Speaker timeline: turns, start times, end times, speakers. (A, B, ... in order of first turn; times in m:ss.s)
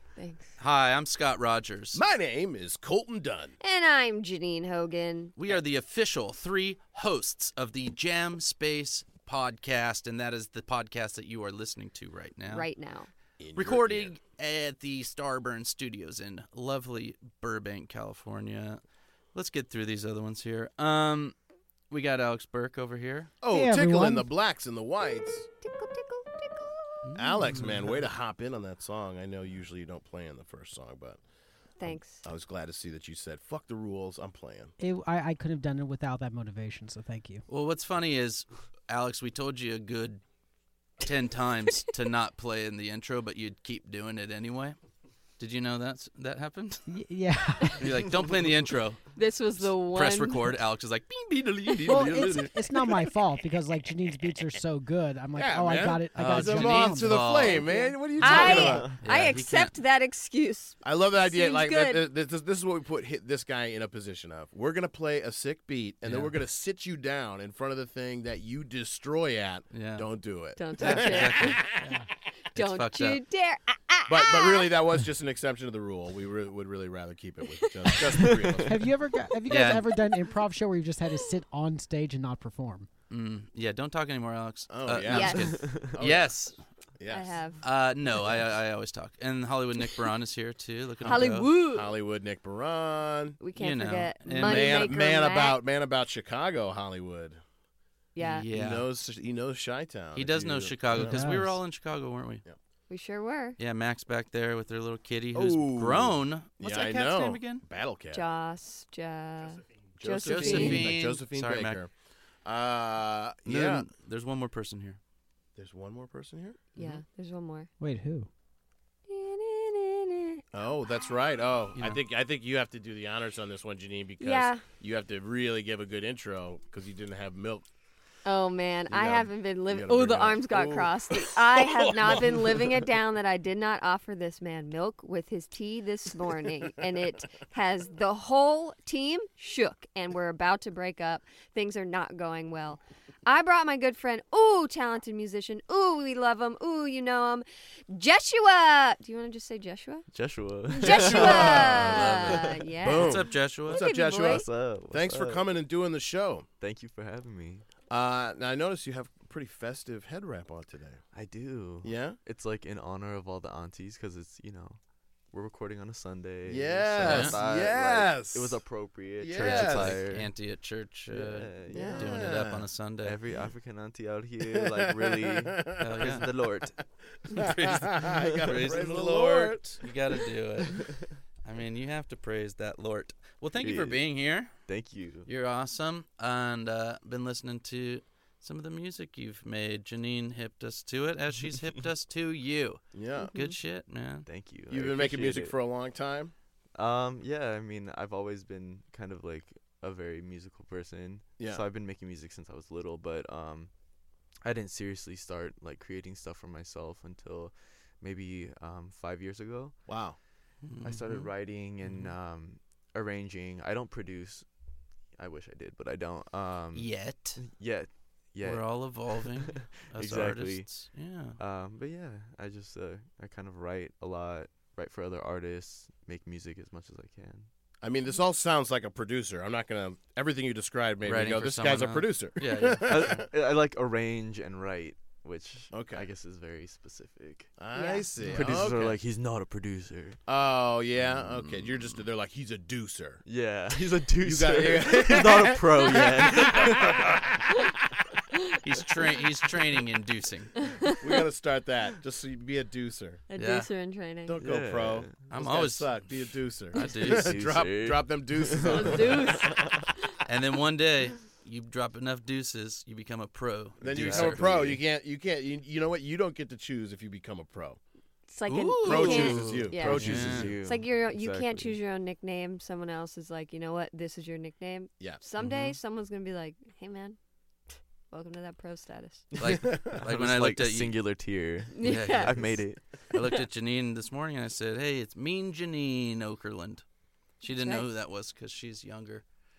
0:00.2-0:00.5 A
0:00.6-0:02.0 B
0:01.9-0:03.5 C
0:03.6-0:05.3 A
0:05.4-0:12.7 B
0:12.4-0:13.1 A
0:13.4-0:14.1 C
0:13.5-0:18.8 B
0:19.3-0:21.3 B
0:21.9-0:23.3 B
0:23.4-0:25.5 C
0:23.5-0:24.3 D
0:25.6-0:27.0 A
0:27.0-0:28.0 B
0:27.2-0:31.2 C
0:31.8-0:32.2 A
0:31.9-0:34.7 C
0:34.8-0:37.4 D
0:37.5-0:40.2 B
0:41.0-0:44.8 B
0:45.4-0:46.8 B
0:46.9-0:48.1 D
0:47.8-0:52.9 B
0:49.1-0:50.5 A
0:51.7-0:52.0 A
0:51.8-0:57.2 D
0:55.3-0:58.9 C
0:56.1-0:59.7 B
0:57.4-1:02.0 A
0:58.6-0:59.0 E
1:00.8-1:11.9 C
1:06.0-1:06.3 B
1:09.7-1:10.1 B
1:10.6-1:11.6 A
1:10.8-1:11.6 B
1:11.8-1:12.1 D
1:12.5-1:13.2 B
1:12.5-1:14.7 A
1:14.1-1:18.9 C
1:17.5-1:18.0 A
1:18.2-1:18.6 E
1:18.6-1:22.9 D
1:19.5-1:19.8 B
1:23.1-1:26.6 B
1:24.7-1:26.3 C
1:25.0-1:25.5 A
1:25.5-1:26.1 E
1:27.0-1:27.4 C
1:27.1-1:27.6 A
1:27.6-1:31.5 B
1:31.0-1:33.4 C
1:31.0-1:31.9 A
1:33.4-1:35.6 A
1:33.6-1:34.9 B
1:34.3-1:37.4 C
1:38.1-1:38.5 A
1:38.2-1:38.9 B
1:38.5-1:41.2 C
1:40.1-1:42.4 B
1:40.9-1:41.6 D
1:42.9-1:43.6 A
1:43.6-1:47.6 B
1:45.3-1:48.2 C
1:48.1-1:50.9 A
1:50.0-1:51.9 C
1:50.2-1:51.8 B
1:52.4-1:53.9 C
1:53.4-1:55.0 B
1:55.6-1:56.6 C
1:56.8-1:57.7 A
1:57.8-1:58.3 D
1:59.1-2:00.4 A
2:00.5-2:07.6 C
2:04.2-2:04.6 A
2:08.2-2:30.1 A
2:08.9-2:12.8 C
2:30.1-2:32.5 E
2:30.7-2:34.4 A
2:30.8-2:32.0 C
2:31.2-2:33.8 B
2:32.8-2:36.5 C
2:34.1-2:35.5 E
2:36.6-2:37.6 E
2:37.9-2:41.0 C
2:41.1-2:50.3 E
2:41.8-2:42.2 C
2:46.4-2:48.6 C
2:47.0-2:47.4 B
2:49.2-2:50.0 C
2:49.4-2:53.2 B
2:51.1-2:52.4 E
2:51.7-2:52.1 A
2:51.8-2:52.6 C
2:53.0-2:56.8 E
2:54.6-2:56.6 C
2:55.8-2:56.3 B
2:57.3-2:59.8 C
2:57.3-3:04.5 B
2:58.0-2:58.8 E
3:00.8-3:01.1 E
3:03.6-3:04.0 E
3:04.6-3:05.3 E
3:05.2-3:14.2 B
3:12.9-3:13.3 C
3:13.2-3:13.6 A
3:14.2-3:15.5 E
3:14.7-3:16.3 C
3:16.7-3:23.7 E
3:21.4-3:21.6 C
3:24.4-3:29.8 E
3:29.9-3:30.2 C
3:30.6-3:32.1 B
3:30.8-3:34.4 E
3:35.2-3:40.7 E
3:36.7-3:37.4 B
3:38.4-3:41.4 B
3:41.4-3:47.5 E
3:47.8-3:53.3 C
3:51.0-3:53.2 B
3:52.8-3:57.5 E
3:55.7-3:56.1 C
3:57.6-3:59.0 C
3:57.7-3:58.1 A
3:58.3-4:00.2 E
4:00.3-4:03.2 C
4:00.9-4:02.1 E
4:03.2-4:07.2 E
4:04.2-4:07.6 C
4:08.6-4:10.6 B
4:10.6-4:11.2 A
4:11.0-4:13.2 C
4:13.3-4:14.4 A
4:13.4-4:13.7 B
4:14.3-4:19.5 C
4:14.4-4:15.2 E
4:15.3-4:17.4 B
4:16.8-4:19.9 E
4:18.6-4:20.1 A
4:20.2-4:24.8 B
4:23.8-4:24.8 E
4:23.8-4:27.8 C
4:28.3-4:37.2 A
4:28.5-4:30.5 B
4:28.8-4:30.6 C
4:29.1-4:31.8 E
4:35.4-4:35.8 B
4:37.7-4:39.3 A
4:39.4-4:43.0 E
4:39.4-4:41.0 B
4:39.6-4:40.0 C
4:41.7-4:42.4 A
4:41.8-4:42.6 B
4:43.1-4:46.8 B
4:47.4-4:47.9 A
4:47.4-4:49.2 B